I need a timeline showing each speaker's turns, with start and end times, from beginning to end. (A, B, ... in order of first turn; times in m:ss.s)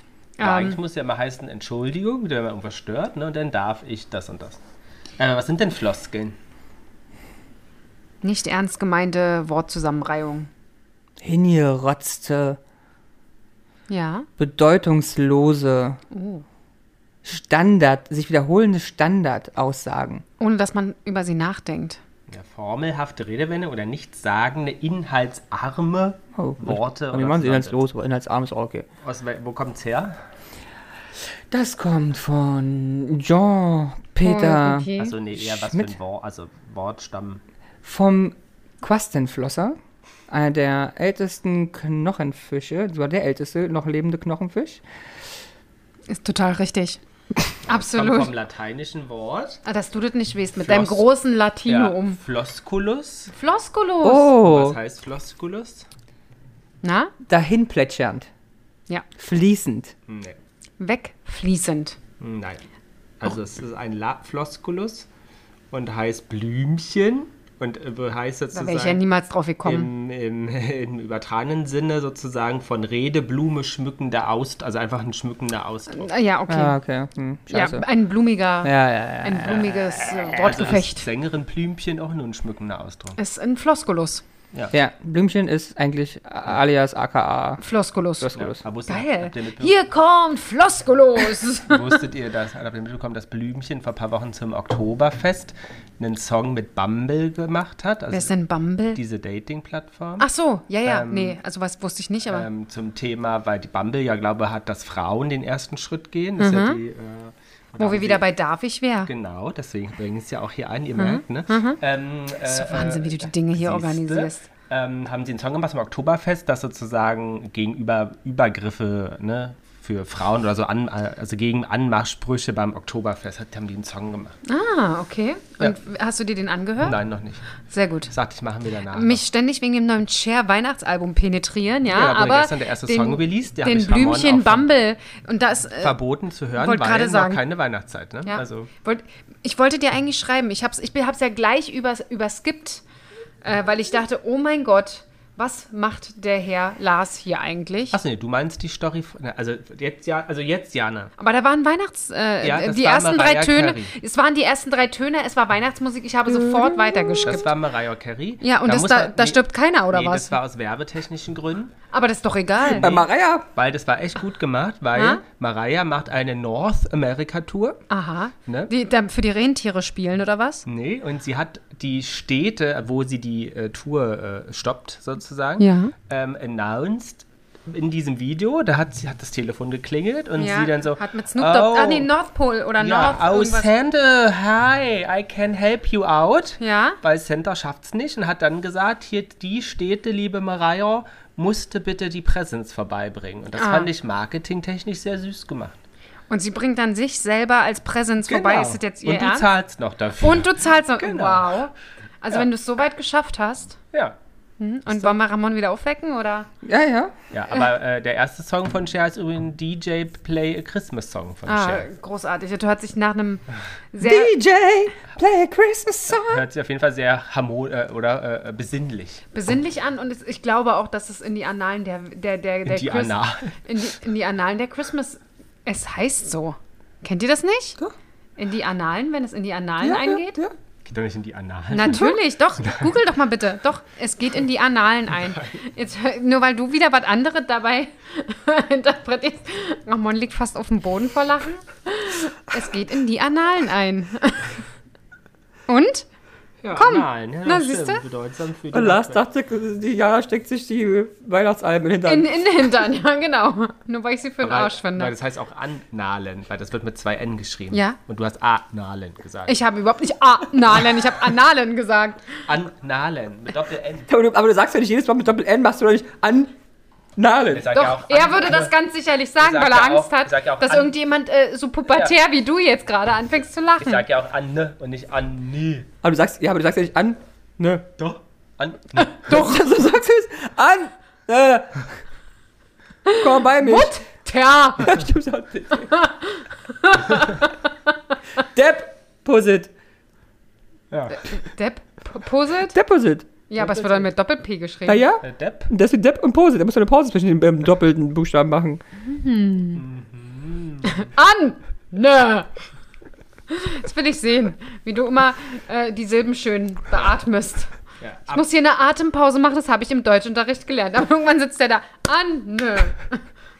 0:00.4-0:00.8 A
0:00.4-0:04.6 B
0:05.2-0:06.4 B
0:08.2-0:10.5 A
0:11.2-0:12.6 C
0:13.9-0:14.3 A
0:14.4-0:16.0 C
0:16.1-0:16.4 A
0:17.2-0:20.2 C
0:20.4-0:22.0 A
0:22.3-0:27.8 B
0:26.4-0:28.9 C
0:29.0-0:30.2 B
0:31.5-0:35.9 C
0:34.2-0:35.1 A
0:35.0-0:37.4 B
0:37.8-0:39.8 C
0:40.3-0:44.8 C
0:46.1-0:48.3 A
0:47.6-0:49.6 B
0:49.6-0:52.2 A
0:50.6-0:51.0 B
0:51.7-0:53.3 B
0:53.3-0:54.3 A
0:54.0-0:54.8 C
0:54.4-0:55.8 B
0:56.8-0:57.1 A
0:57.3-0:58.3 C
0:59.2-0:59.9 C
1:00.1-1:00.4 B
1:00.8-1:02.0 A
1:02.2-1:02.6 B
1:03.2-1:05.1 B
1:05.7-1:09.0 B
1:08.5-1:09.9 A
1:09.6-1:16.1 B
1:15.9-1:16.8 A
1:16.5-1:17.8 C
1:17.5-1:21.0 A
1:18.6-1:20.7 C
1:20.4-1:23.2 B
1:23.2-1:24.2 A
1:24.7-1:27.6 C
1:27.6-1:32.0 A
1:28.2-1:28.6 C
1:28.4-1:29.7 B
1:31.7-1:38.3 B
1:38.1-1:39.0 A
1:38.9-1:40.2 B
1:40.2-1:42.5 A
1:40.8-1:41.4 B
1:42.3-1:48.2 B
1:46.4-1:46.8 A
1:47.8-1:49.1 A
1:49.0-2:04.4 B
1:51.0-1:51.8 A
1:52.4-1:54.4 A
2:04.5-2:07.0 A
2:06.8-2:09.2 B
2:07.7-2:08.1 A
2:08.9-2:16.0 A
2:11.9-2:14.7 B
2:15.8-2:18.7 B
2:16.6-2:17.4 A
2:18.2-2:22.8 A
2:23.4-2:28.0 A
2:27.9-2:31.1 B
2:31.2-2:37.5 A
2:32.4-2:33.9 B
2:36.3-2:37.4 C
2:37.2-2:41.7 B
2:38.4-2:40.3 A
2:41.9-2:42.9 A
2:42.7-2:47.8 B
2:42.8-2:43.5 C
2:44.9-2:45.2 A
2:47.9-2:50.6 A
2:48.4-2:48.7 B
2:50.7-3:02.1 B
2:55.6-2:55.9 A
3:00.4-3:03.7 A
3:02.8-3:15.8 B
3:06.6-3:07.0 A
3:13.6-3:13.9 A
3:16.3-3:19.5 A
3:18.3-3:21.6 B
3:20.2-3:23.8 A
3:24.6-3:26.5 A
3:26.6-3:27.1 C
3:27.3-3:31.9 B
3:31.5-3:34.3 A
3:34.0-3:36.4 C
3:36.1-3:39.2 B
3:39.3-3:47.8 A
3:42.6-3:43.5 B
3:48.4-3:50.4 A
3:49.8-3:50.5 C
3:50.8-3:52.9 B
3:51.7-4:04.6 A
3:51.9-3:52.1 C
4:05.7-4:06.1 A
4:06.6-4:09.2 B
4:06.7-4:08.0 A
4:08.7-4:12.7 C
4:12.0-4:15.1 A
4:14.4-4:19.6 B
4:17.7-4:18.0 A
4:19.5-4:22.4 A
4:22.5-4:24.1 B
4:24.1-4:26.5 C
4:27.2-4:27.8 C
4:27.5-4:28.7 B
4:27.7-4:34.0 A
4:29.4-4:30.9 B
4:31.9-4:32.1 B
4:33.8-4:35.9 B
4:36.0-4:37.9 C
4:38.0-4:39.3 B
4:39.0-4:39.6 A
4:39.3-4:42.0 C
4:43.0-4:45.0 A
4:43.2-4:44.0 C
4:44.8-4:45.9 C
4:45.8-4:47.7 A
4:48.5-4:49.7 C
4:50.9-4:51.2 B
4:51.1-4:52.8 A
4:52.7-4:53.3 C
4:53.5-4:55.1 A
4:53.6-4:54.1 B
4:54.8-4:58.8 C
4:55.2-4:55.7 B
4:59.0-4:59.8 A
4:59.8-5:01.0 B
5:00.8-5:02.5 A
5:03.5-5:07.7 A
5:08.0-5:08.4 B
5:08.3-5:13.2 A